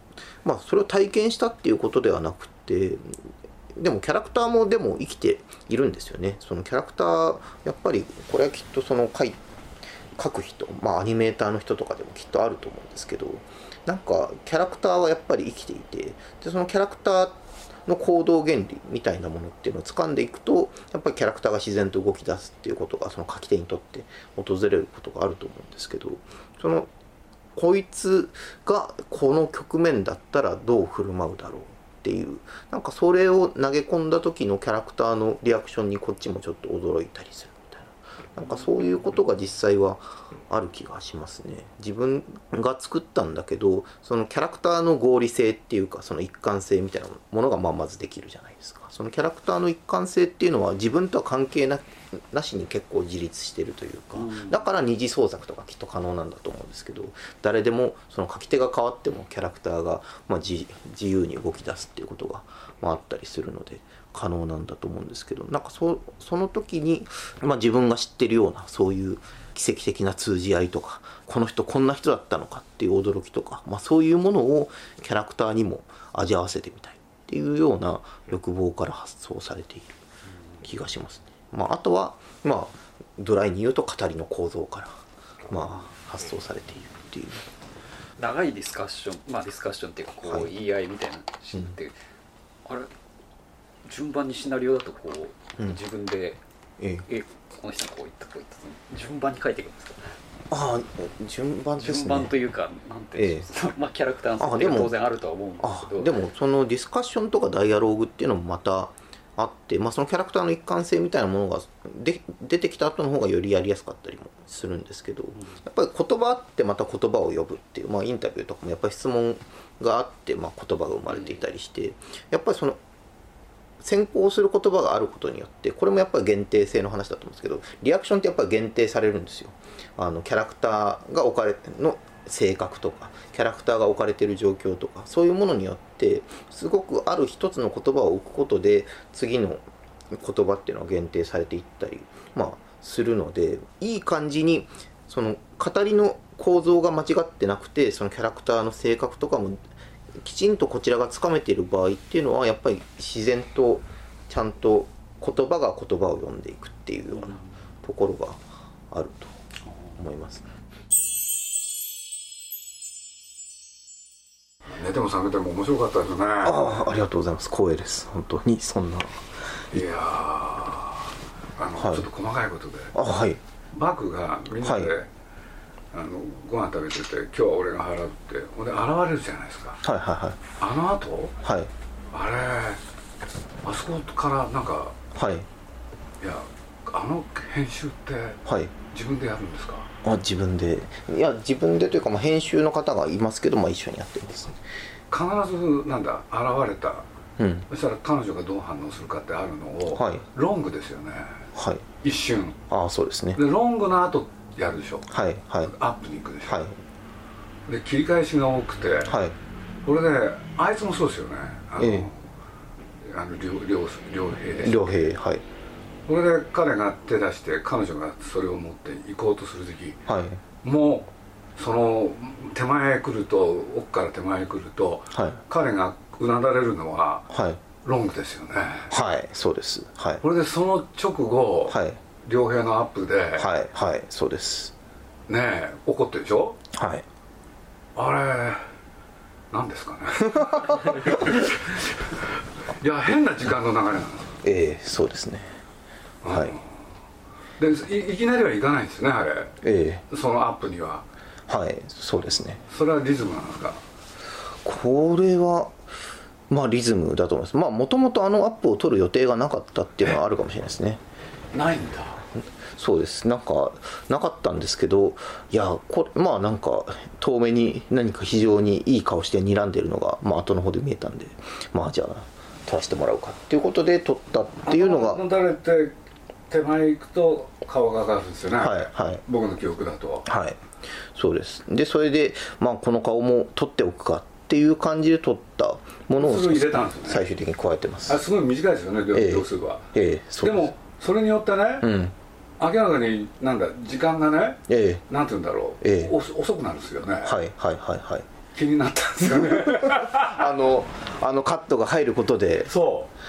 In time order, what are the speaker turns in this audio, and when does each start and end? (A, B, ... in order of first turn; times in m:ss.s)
0:00.4-0:09.4 A
0:10.2-0:26.9 A
0:27.5-1:20.0 A
0:54.2-0:54.5 B
1:20.6-1:27.4 A
1:28.2-1:31.9 B
1:32.6-1:32.9 B
1:33.8-1:36.4 B
1:37.1-1:40.1 B
1:40.5-1:42.3 A
1:41.8-1:46.2 B
1:43.2-1:43.5 A
1:44.4-1:45.0 A
1:45.6-2:02.8 A
2:03.8-2:29.6 A
2:30.2-2:39.3 A
2:40.0-2:40.4 A
2:44.7-2:46.8 C
2:46.4-2:49.8 A
2:49.7-2:53.0 C
2:51.8-2:52.1 A
2:52.9-2:53.4 A
2:53.7-2:55.1 C
2:54.6-2:54.9 A
2:55.9-2:59.8 C
2:59.8-3:00.4 A
3:00.6-3:01.4 C
3:01.4-3:01.7 A
3:02.1-3:02.8 C
3:03.6-3:05.0 C
3:05.1-3:05.5 A
3:06.2-3:09.9 C
3:08.4-3:08.7 A
3:10.0-3:14.6 A
3:15.1-3:17.1 C
3:17.4-3:17.7 A
3:17.7-3:21.4 C
3:19.9-3:20.2 A
3:21.5-3:21.8 A
3:22.0-3:22.6 C
3:22.7-3:23.4 A
3:23.4-3:25.1 C
3:25.1-3:25.7 A
3:25.6-3:26.7 C
3:26.4-3:26.8 A
3:27.7-3:29.2 C
3:29.0-3:29.4 A
3:29.8-3:32.2 C
3:31.8-3:32.1 A
3:33.0-3:35.1 C
3:34.6-3:35.4 A
3:36.1-3:40.0 C
3:40.1-3:40.4 A
3:40.6-3:47.3 C
3:45.1-3:45.4 A
3:47.3-3:47.6 A
3:47.8-3:49.0 C
3:48.9-3:50.2 A
3:50.2-3:53.5 C
3:51.7-3:52.0 A
3:53.4-3:54.7 A
3:55.3-3:56.6 C
3:56.7-3:57.0 A
3:57.9-3:58.7 C
3:59.5-4:04.4 C
4:04.4-4:05.6 A
4:06.2-4:06.8 C
4:06.3-4:06.6 A
4:07.6-4:11.0 C
4:09.6-4:10.0 A
4:11.5-4:12.6 A
4:12.4-4:13.8 C
4:14.6-4:15.8 A
4:16.5-4:21.0 A
4:21.5-4:22.2 C
4:22.7-4:35.2 A
4:34.6-4:35.9 C
4:36.5-4:40.3 C
4:38.6-4:39.2 A
4:40.2-4:40.6 A
4:41.1-4:48.2 A
4:46.2-4:47.2 C
4:48.1-4:51.9 C
4:49.1-4:50.7 A
4:51.8-4:52.1 A
4:52.6-4:57.4 C
4:54.7-4:55.0 A
4:55.8-4:56.1 A
4:57.2-4:58.3 A
4:58.5-5:00.5 C
4:59.4-5:02.7 A
5:02.6-5:03.1 C